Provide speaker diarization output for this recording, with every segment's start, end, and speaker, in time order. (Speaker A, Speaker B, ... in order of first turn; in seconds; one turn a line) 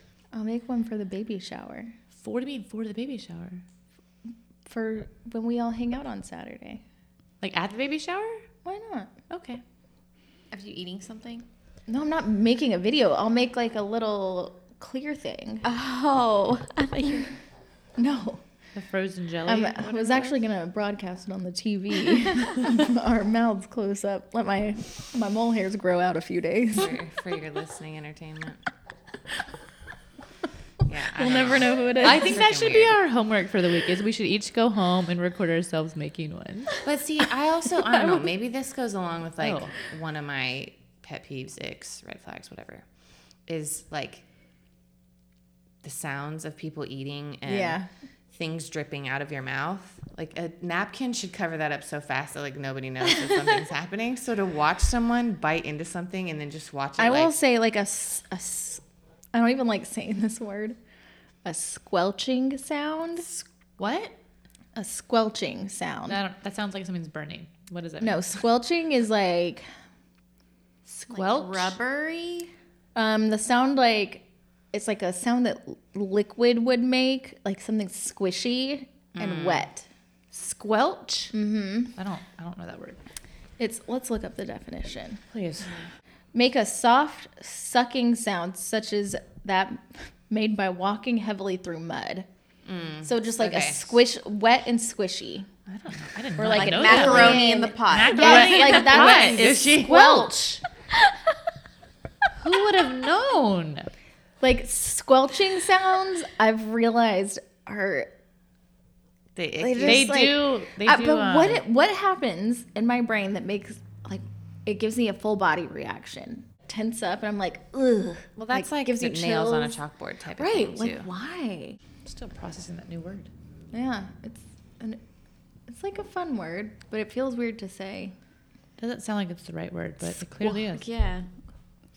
Speaker A: 0.3-1.9
Speaker B: 2.2-3.6
Speaker A: 4.7-6.8
Speaker B: 7.4-8.4
Speaker A: 8.6-9.1
Speaker B: 9.3-9.6
Speaker C: 10.5-11.4
Speaker A: 11.9-15.7
Speaker C: 15.6-17.3
Speaker A: 18.0-18.4
Speaker B: 18.8-20.3
Speaker A: 19.5-27.0
Speaker D: 26.7-28.6
Speaker D: 30.9-33.0
Speaker A: 31.1-32.4
Speaker B: 32.0-36.8
Speaker D: 36.8-42.9
Speaker B: 39.4-39.7
Speaker D: 43.5-44.2
Speaker D: 45.8-47.8
Speaker A: 47.5-47.9
Speaker D: 48.3-57.4
Speaker A: 57.0-58.8
Speaker A: 59.3-60.8
Speaker A: 61.5-63.3
Speaker B: 63.3-64.1
Speaker A: 64.8-66.2
Speaker B: 66.1-68.4
Speaker A: 68.0-69.7
Speaker B: 70.9-71.8
Speaker C: 71.1-72.5
Speaker A: 73.0-79.9
Speaker D: 79.2-79.7
Speaker B: 80.3-81.3
Speaker A: 81.3-81.9
Speaker B: 82.0-83.0
Speaker A: 83.6-85.2
Speaker B: 85.3-85.8
Speaker A: 86.3-92.3
Speaker D: 92.7-94.0
Speaker A: 93.0-95.5
Speaker B: 95.7-100.3
Speaker A: 96.4-100.6
Speaker C: 96.5-99.1
Speaker D: 98.2-100.2
Speaker B: 102.4-103.9
Speaker A: 104.4-108.1
Speaker D: 109.3-110.2
Speaker A: 109.6-119.8
Speaker B: 109.8-111.6
Speaker D: 118.4-121.1
Speaker A: 120.4-121.8
Speaker B: 122.0-123.3
Speaker A: 123.7-125.0
Speaker A: 125.7-128.2
Speaker B: 128.8-130.8
Speaker C: 130.4-131.3